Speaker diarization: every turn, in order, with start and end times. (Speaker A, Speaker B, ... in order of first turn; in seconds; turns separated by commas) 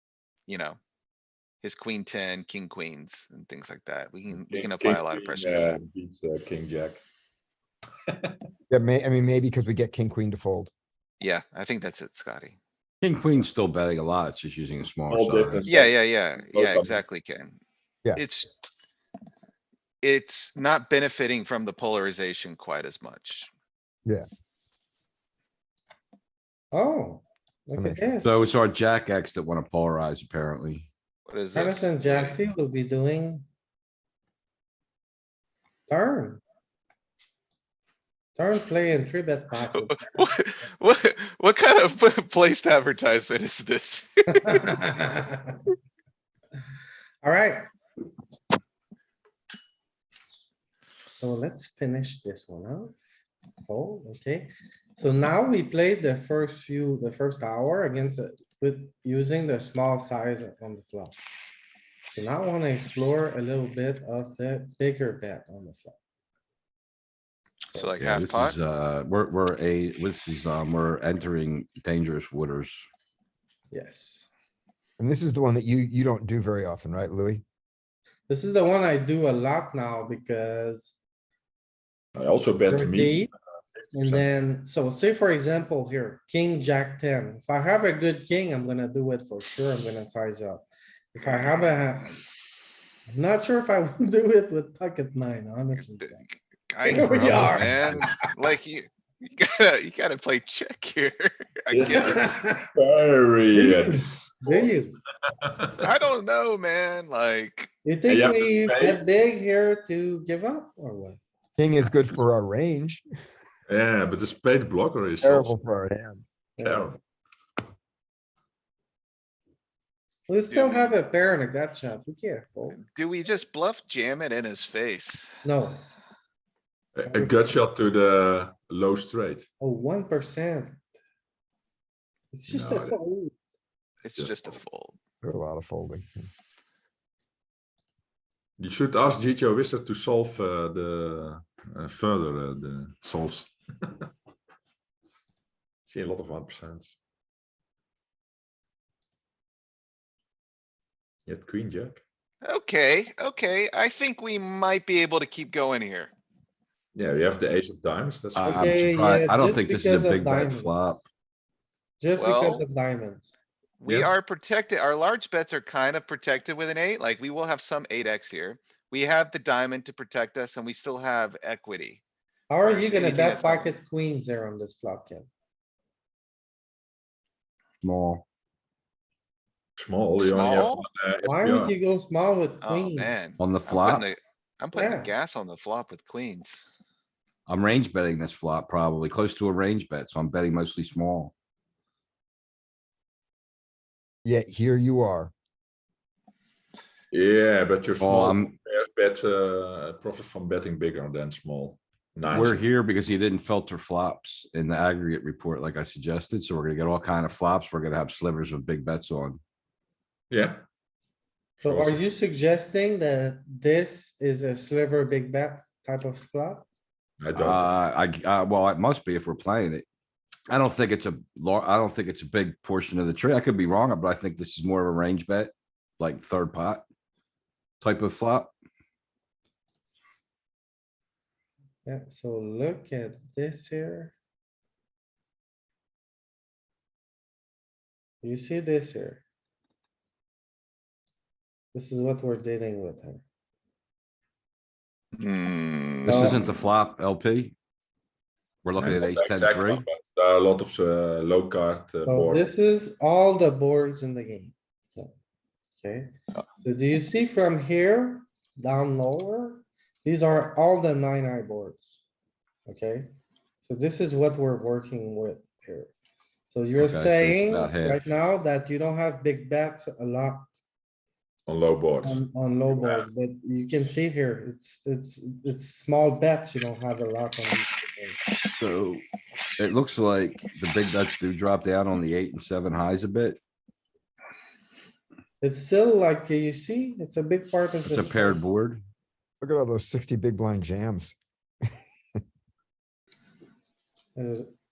Speaker A: 0.5-0.8, Speaker A: 1.6-5.8, Speaker B: 4.4-7.0, Speaker B: 8.1-8.4, Speaker C: 8.7-10.7, Speaker A: 11.2-12.6, Speaker D: 13.0-15.7, Speaker B: 15.1-17.0, Speaker A: 15.7-17.6, Speaker A: 18.2-18.5, Speaker A: 20.0-23.5, Speaker E: 26.7-28.5, Speaker C: 27.8-28.1, Speaker D: 28.2-30.9, Speaker A: 31.3-32.4, Speaker E: 31.5-33.5, Speaker E: 35.9-36.4, Speaker E: 38.4-40.2, Speaker A: 39.7-44.8, Speaker E: 44.5-45.6, Speaker E: 47.2-47.7, Speaker E: 51.1-53.0, Speaker E: 53.6-61.2, Speaker E: 62.1-66.0, Speaker A: 67.7-68.6, Speaker D: 68.0-72.8, Speaker E: 73.7-74.3, Speaker C: 75.0-77.4, Speaker E: 78.3-80.9, Speaker B: 82.2-84.2, Speaker E: 82.7-83.3, Speaker E: 83.9-92.2, Speaker E: 93.1-96.2, Speaker A: 95.8-102.4, Speaker E: 96.8-98.1, Speaker B: 101.7-104.5, Speaker E: 101.9-102.7, Speaker E: 103.5-105.0, Speaker B: 105.4-105.7, Speaker A: 105.8-107.7, Speaker E: 107.8-111.2, Speaker B: 108.1-109.1, Speaker C: 111.6-113.1, Speaker B: 113.7-115.6, Speaker C: 115.2-116.2, Speaker E: 116.6-116.9, Speaker B: 116.6-117.0, Speaker E: 120.3-122.8, Speaker A: 120.5-121.0, Speaker A: 122.7-125.3, Speaker E: 125.4-125.8, Speaker B: 127.0-129.5, Speaker E: 127.1-127.7, Speaker E: 129.6-130.8, Speaker E: 132.3-133.3, Speaker B: 132.5-133.0, Speaker A: 134.1-135.0, Speaker B: 134.2-134.6, Speaker C: 135.2-136.3, Speaker B: 138.6-144.1, Speaker B: 145.8-146.9, Speaker B: 151.3-152.0, Speaker A: 152.4-156.1, Speaker B: 156.9-158.9, Speaker D: 158.4-161.1, Speaker E: 158.4-161.0, Speaker E: 162.0-163.3, Speaker A: 162.2-162.7, Speaker A: 163.8-172.0, Speaker E: 172.5-175.3, Speaker A: 172.6-173.7, Speaker D: 177.8-178.2, Speaker B: 179.8-181.8, Speaker A: 180.2-180.9, Speaker E: 181.2-183.2, Speaker A: 182.6-186.7, Speaker D: 183.4-184.1, Speaker E: 184.7-185.1, Speaker D: 187.5-191.3, Speaker C: 194.2-195.3, Speaker B: 197.1-202.7, Speaker D: 198.0-198.5, Speaker D: 202.3-209.4, Speaker B: 210.3-210.6, Speaker E: 211.6-216.7, Speaker B: 211.6-212.0, Speaker B: 217.2-217.7, Speaker D: 217.4-219.9, Speaker D: 220.5-226.8, Speaker D: 227.8-228.5, Speaker E: 231.9-234.1, Speaker E: 238.2-239.2, Speaker E: 241.7-243.2, Speaker A: 245.2-246.5, Speaker E: 246.1-246.5, Speaker D: 246.1-247.6, Speaker D: 248.6-249.8, Speaker B: 248.8-252.5, Speaker E: 252.1-255.1, Speaker E: 255.8-256.1, Speaker E: 256.6-262.0, Speaker E: 262.7-263.1, Speaker E: 263.6-265.9, Speaker E: 266.5-270.5, Speaker D: 266.8-268.1, Speaker B: 271.5-273.1, Speaker E: 272.0-278.2, Speaker D: 278.6-279.1, Speaker D: 279.6-283.4, Speaker E: 285.4-288.4, Speaker D: 287.8-288.8, Speaker C: 289.4-291.2, Speaker E: 294.2-294.5